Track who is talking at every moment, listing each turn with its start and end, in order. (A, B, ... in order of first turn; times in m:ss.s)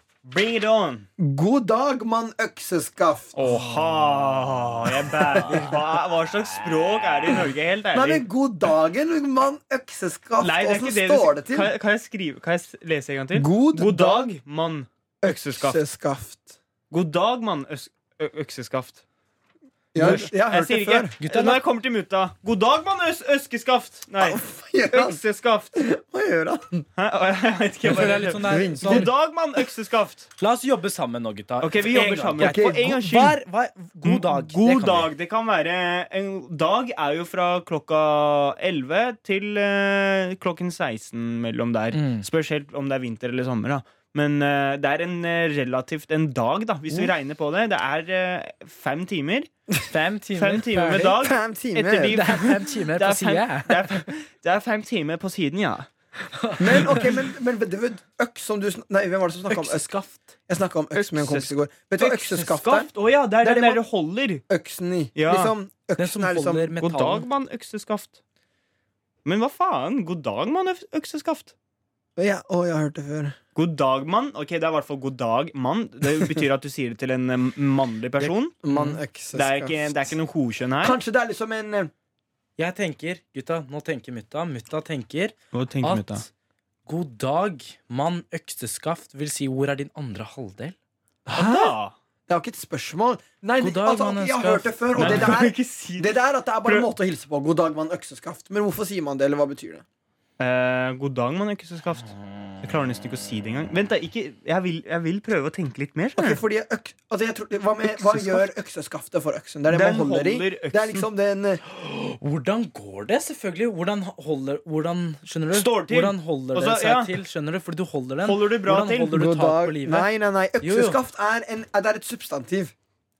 0:00.2-0:01.1 A
0:01.2-0:03.4 B
0:03.4-0:08.2 A
0:03.4-0:04.2 C
0:05.4-0:05.8 C
0:07.9-0:11.7 B
0:10.4-0:15.8 A
0:13.3-0:14.3 B
0:15.2-0:16.6 B
0:16.9-0:19.0 A
0:19.9-0:21.2 B
0:20.0-0:25.8 A
0:21.2-0:21.6 C
0:24.2-0:25.2 B
0:25.8-0:26.9 B
0:27.0-0:30.3 A
0:27.8-0:29.1 C
0:28.4-0:29.1 B
0:30.4-0:35.1 C
0:31.6-0:33.4 A
0:32.4-0:33.2 B
0:34.0-0:49.5 A
0:41.9-0:42.3 C
0:49.9-0:51.2 C
0:50.4-0:55.9 A
0:51.2-0:52.2 B
0:52.1-0:54.0 C
0:56.4-0:57.1 C
0:56.6-0:59.9 B
0:59.5-1:00.3 C
1:00.5-1:02.9 B
1:01.0-1:04.4 A
1:03.4-1:03.8 B
1:04.5-1:06.7 B
1:05.2-1:05.5 A
1:06.0-1:07.3 C
1:06.8-1:08.2 A
1:09.2-1:11.5 A
1:12.2-1:13.4 B
1:13.6-1:18.6 A
1:18.2-1:19.0 C
1:18.6-1:20.1 B
1:19.3-1:21.0 A
1:20.8-1:21.9 B
1:22.6-1:26.3 C
1:25.5-1:26.2 A
1:26.9-1:30.8 C
1:31.3-1:32.0 A
1:31.4-1:31.7 C
1:31.4-1:31.6 B
1:32.3-1:39.8 B
1:33.6-1:35.3 C
1:35.0-1:36.9 A
1:40.4-1:46.4 A
1:46.2-1:51.6 B
1:48.0-1:48.4 A
1:49.7-1:51.1 A
1:51.7-2:00.1 C
1:55.5-1:57.1 A
1:58.2-1:59.2 A
1:59.1-2:02.7 B
2:00.6-2:01.0 C